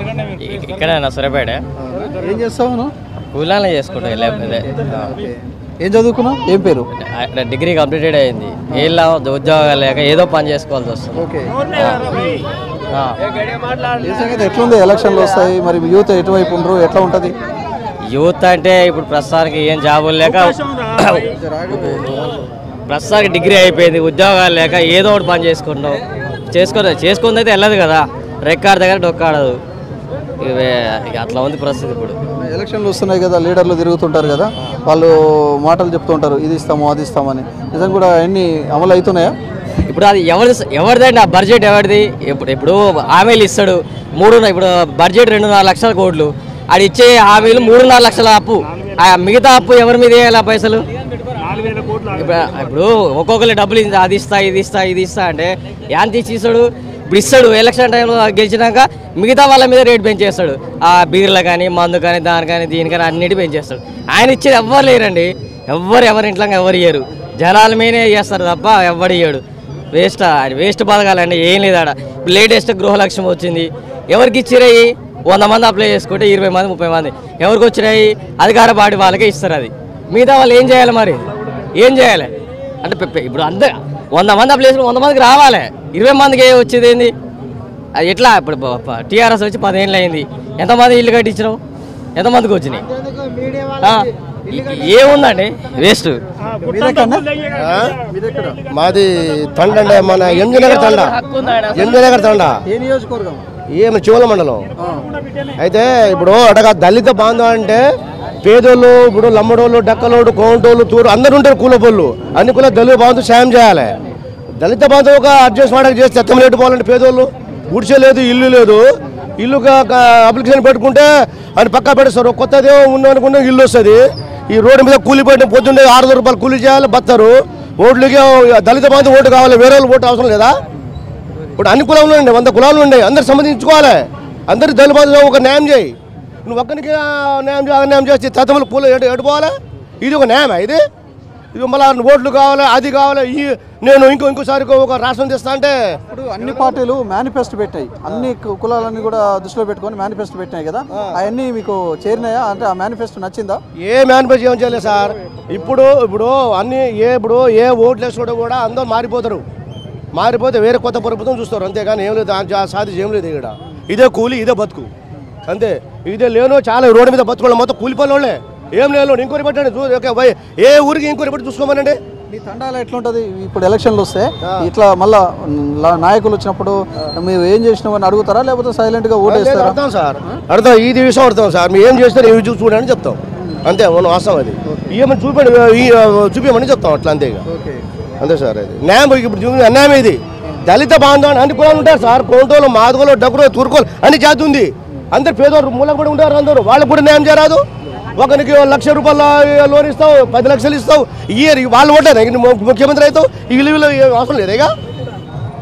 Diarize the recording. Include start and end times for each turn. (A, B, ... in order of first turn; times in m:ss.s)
0:00.2-0:01.6 A
0:01.8-0:02.9 B
0:03.3-0:05.1 A
0:04.8-0:06.9 B
0:06.9-0:12.2 A
0:11.2-0:11.6 B
0:14.0-0:17.4 B
0:18.1-0:22.2 A
0:21.4-0:22.4 B
0:22.9-0:29.6 A
0:30.4-0:32.2 A
0:32.4-0:39.3 B
0:39.9-0:50.8 A
0:51.5-1:09.4 A
1:09.9-1:22.3 A
1:22.8-1:27.1 A
1:28.0-1:31.6 A
1:32.2-1:32.8 A
1:33.6-1:36.2 A
1:36.6-1:37.3 B
1:37.5-1:37.9 C
1:38.0-1:38.6 B
1:38.7-1:41.2 C
1:40.4-1:42.0 A
1:41.7-1:42.6 C
1:42.6-1:43.4 B
1:43.7-1:44.7 C
1:45.6-1:47.8 C
1:48.4-1:54.0 C
1:54.6-1:58.8 C
1:59.4-2:10.6 C
2:11.6-2:15.9 C
2:16.4-2:20.8 C
2:21.5-2:25.8 C
2:26.1-2:33.6 B
2:33.8-2:39.4 C
2:40.1-2:44.9 C
2:45.5-2:52.0 C
2:52.3-3:00.4 B
2:54.4-2:54.7 C
2:59.2-3:07.4 C
3:04.7-3:05.0 B
3:07.5-3:07.8 B
3:08.2-3:17.6 C
3:18.2-3:24.7 C